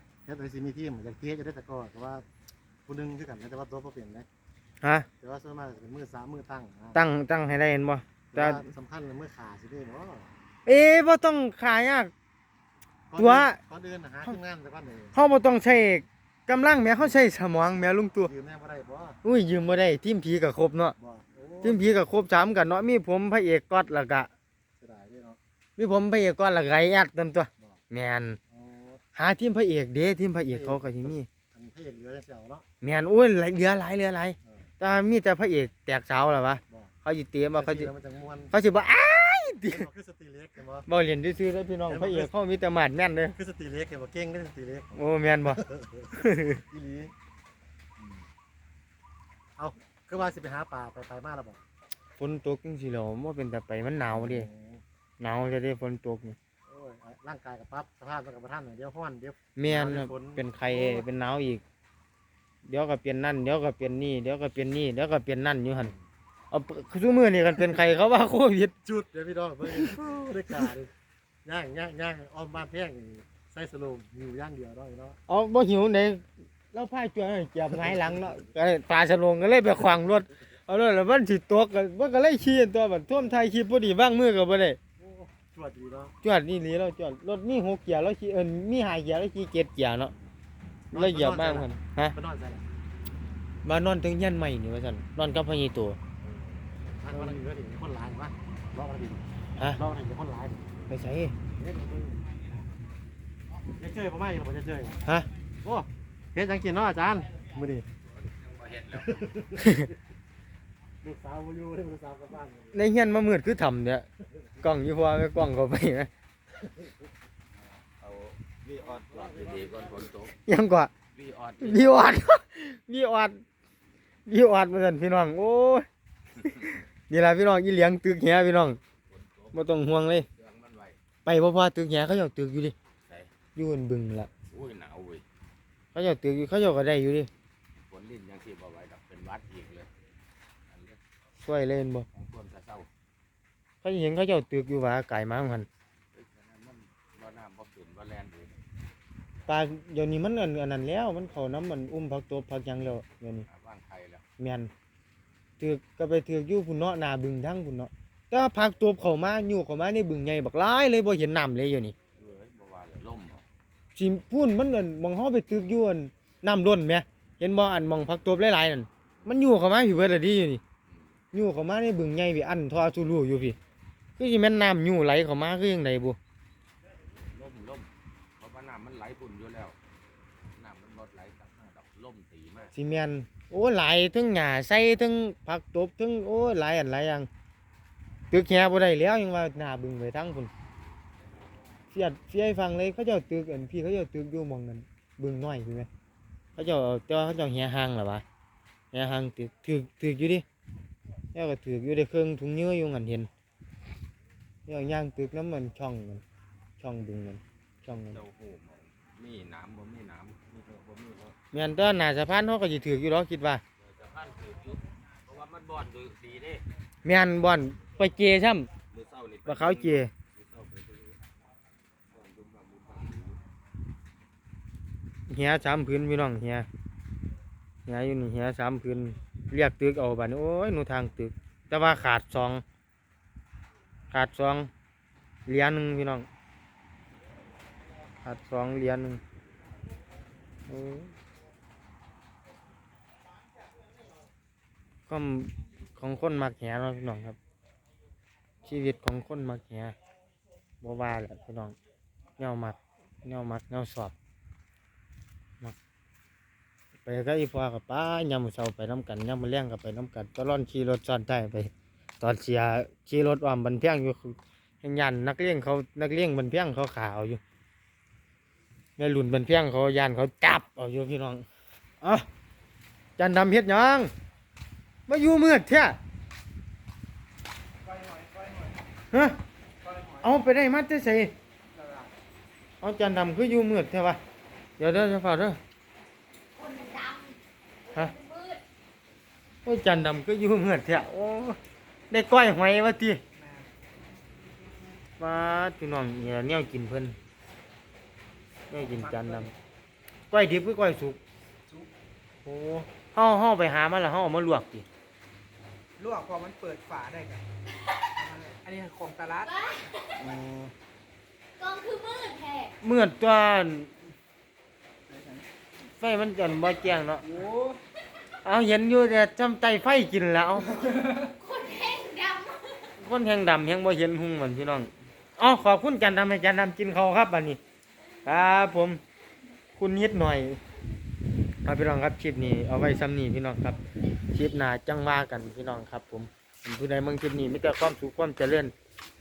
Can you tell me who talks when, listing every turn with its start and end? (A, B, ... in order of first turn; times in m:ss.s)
0:00.3-0:02.2 A
0:02.9-0:04.3 A
0:04.8-0:05.1 B
0:05.2-0:07.0 A
0:06.9-0:08.6 B
0:08.3-0:10.3 A
0:10.7-0:12.1 B
0:13.1-0:15.1 A
0:13.2-0:13.6 B
0:15.1-0:18.3 B
0:18.3-0:19.2 A
0:19.2-0:21.0 B
0:21.0-0:21.8 A
0:21.6-0:24.3 B
0:24.8-0:25.4 A
0:25.8-0:28.4 B
0:28.5-0:29.0 A
0:29.2-0:31.3 B
0:30.5-0:32.6 A
0:32.8-0:37.9 B
0:37.6-0:38.5 A
0:38.5-0:39.9 B
0:39.7-0:40.9 A
0:40.9-0:43.4 B
0:41.9-0:42.3 A
0:43.4-0:45.0 A
0:45.0-0:46.6 B
0:45.7-0:46.0 A
0:46.7-0:47.1 A
0:49.6-0:51.6 A
0:52.2-0:54.5 B
0:54.1-0:54.8 A
0:55.2-0:56.4 B
0:56.7-1:01.0 A
0:59.6-1:01.6 B
1:02.6-1:05.9 B
1:06.5-1:08.7 B
1:08.8-1:10.9 A
1:11.4-1:15.2 A
1:15.3-1:24.8 B
1:25.0-1:26.2 A
1:26.2-1:30.1 B
1:30.9-1:32.2 B
1:30.9-1:32.6 A
1:33.6-1:36.0 B
1:37.0-1:39.2 A
1:39.7-1:40.7 A
1:40.9-1:41.3 B
1:41.6-1:42.2 A
1:43.8-1:45.0 A
1:45.6-1:47.9 A
1:48.4-1:49.2 C
1:49.6-1:49.9 B
1:51.0-1:52.8 A
1:52.7-1:54.1 B
1:54.6-1:56.1 B
1:58.0-2:00.4 C
2:00.4-2:00.9 B
2:01.1-2:02.0 C
2:01.6-2:03.4 B
2:04.3-2:05.9 B
2:06.4-2:08.8 B
2:09.1-2:09.6 C
2:09.5-2:10.3 B
2:10.4-2:11.0 C
2:11.2-2:12.8 B
2:13.0-2:13.3 C
2:13.6-2:14.3 B
2:14.5-2:15.2 C
2:15.9-2:17.3 B
2:17.8-2:19.9 C
2:20.7-2:21.0 C
2:21.4-2:22.1 B
2:22.1-2:22.9 C
2:23.8-2:25.7 B
2:26.1-2:28.6 C
2:29.5-2:33.5 B
2:33.5-2:34.2 C
2:34.4-2:34.7 B
2:35.6-2:42.0 B
2:42.2-2:43.4 C
2:44.0-2:50.6 B
2:50.9-2:51.1 C
2:51.3-2:53.6 B
2:54.2-2:56.2 B
2:57.3-2:59.8 C
3:00.5-3:02.7 C
3:02.8-3:07.3 B
3:08.3-3:10.5 B
3:11.9-3:15.9 B
3:16.6-3:18.2 B
3:18.9-3:20.4 B
3:21.3-3:23.3 B
3:24.7-3:26.2 B
3:26.8-3:28.2 B
3:28.1-3:31.4 C
3:31.5-3:33.6 B
3:33.8-3:36.6 C
3:37.0-3:38.7 B
3:38.9-3:41.2 C
3:39.5-3:40.1 B
3:42.1-3:43.4 C
3:45.3-3:46.7 B
3:47.9-3:52.6 B
3:54.1-3:54.7 B
3:55.5-3:56.3 B
3:58.2-3:59.2 B
4:00.7-4:01.1 B
4:05.1-4:07.4 B
4:08.6-4:10.0 B
4:10.8-4:11.8 B
4:12.4-4:14.1 B
4:17.1-4:27.4 B
4:29.0-4:31.5 B
4:32.0-4:32.3 B
4:33.2-4:34.1 B
4:35.1-4:36.0 B
4:37.9-4:38.7 D
4:39.1-4:39.4 B
4:39.8-4:40.2 D
4:40.2-4:41.3 B
4:41.8-4:42.1 D
4:42.8-4:44.2 B
4:44.8-4:45.6 B
4:46.6-4:48.6 E
4:49.6-4:51.6 B
4:52.1-4:53.2 B
4:53.4-4:53.7 D
4:55.2-4:57.2 B
4:58.7-4:59.5 B
4:59.2-4:59.5 D
5:00.3-5:01.2 B
5:02.4-5:04.9 B
5:06.0-5:07.4 D
5:08.2-5:09.5 D
5:09.5-5:10.0 E
5:10.2-5:10.7 B
5:11.6-5:12.7 E
5:12.8-5:13.9 B
5:16.0-5:17.3 B
5:17.4-5:17.8 D
5:18.4-5:20.7 B
5:21.4-5:22.8 E
5:23.0-5:27.6 B
5:28.2-5:29.0 B
5:29.8-5:30.6 B
5:31.6-5:38.7 B